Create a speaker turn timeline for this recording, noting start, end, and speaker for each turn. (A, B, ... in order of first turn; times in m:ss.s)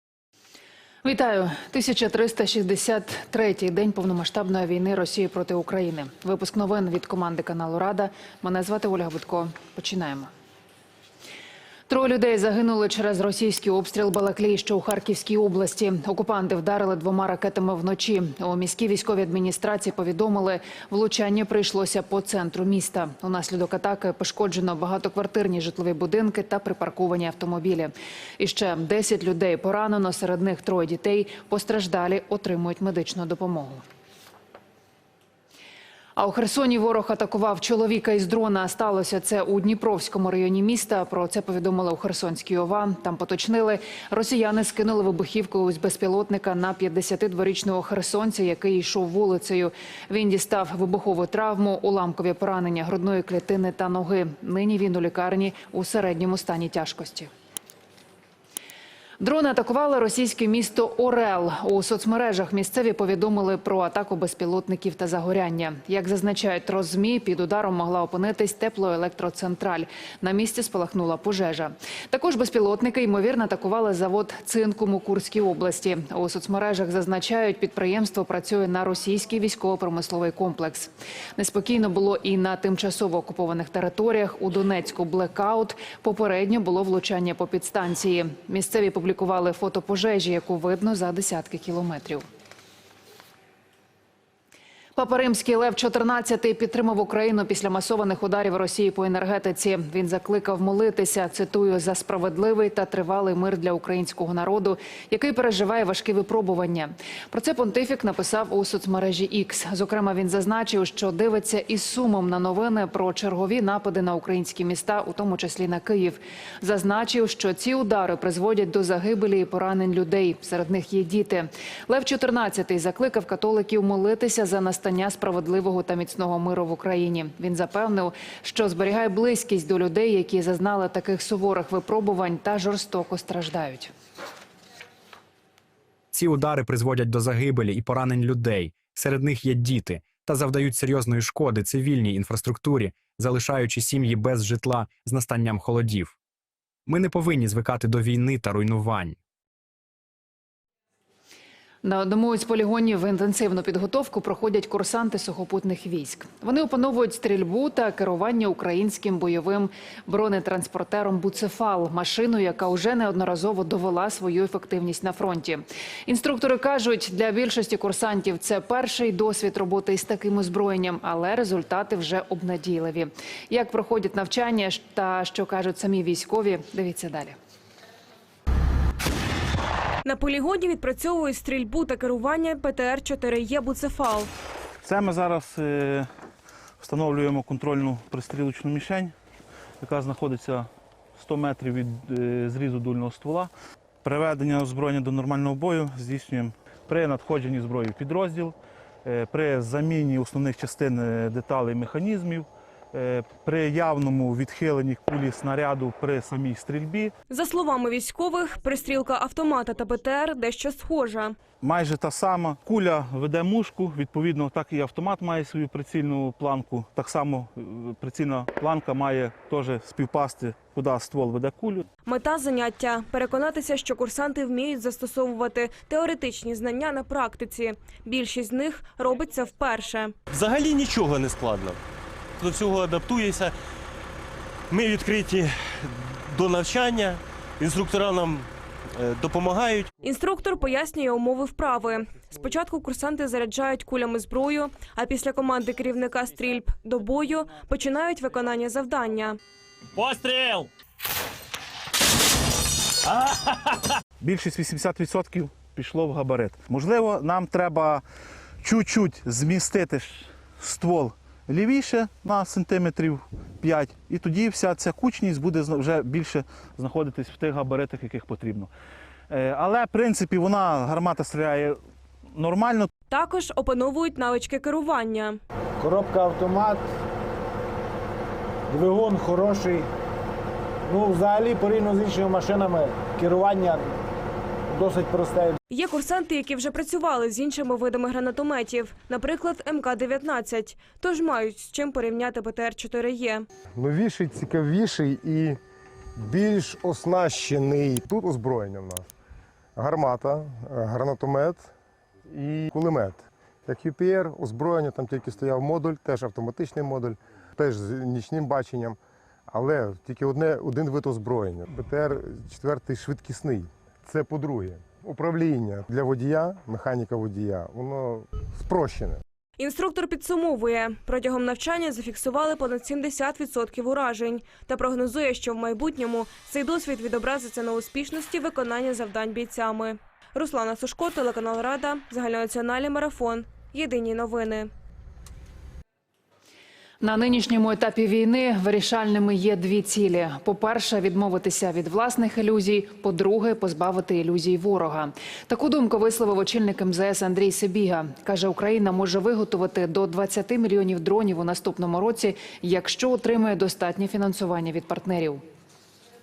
0:01.0-0:10.3 A
0:11.9-0:33.8 A
0:36.2-0:57.3 A
0:59.2-1:32.2 A
1:35.0-2:13.9 A
2:16.1-2:26.1 B
2:26.9-2:29.2 B
2:31.8-2:57.4 A
3:00.0-3:04.3 C
3:04.8-3:06.1 D
3:06.8-3:09.1 D
3:09.8-3:13.5 D
3:14.0-3:27.1 D
3:27.3-3:31.4 C
3:31.6-3:41.9 D
3:42.0-3:50.1 C
3:50.3-3:51.8 E
3:52.4-3:53.5 E
3:54.7-3:59.9 E
4:00.0-4:09.4 C
4:10.0-4:10.7 E
4:14.2-4:18.0 D
4:18.6-4:28.7 D
4:29.3-4:31.8 D
4:32.4-4:32.9 D
4:33.1-4:35.4 C
4:35.8-4:36.8 F
4:38.7-4:39.9 F
4:40.9-4:43.8 F
4:44.7-4:45.6 F
4:45.7-4:53.5 C
4:53.8-4:55.6 G
4:56.2-4:59.1 G
4:59.8-5:01.7 G
5:02.3-5:19.2 G
5:19.6-5:34.7 C
5:37.0-5:55.4 A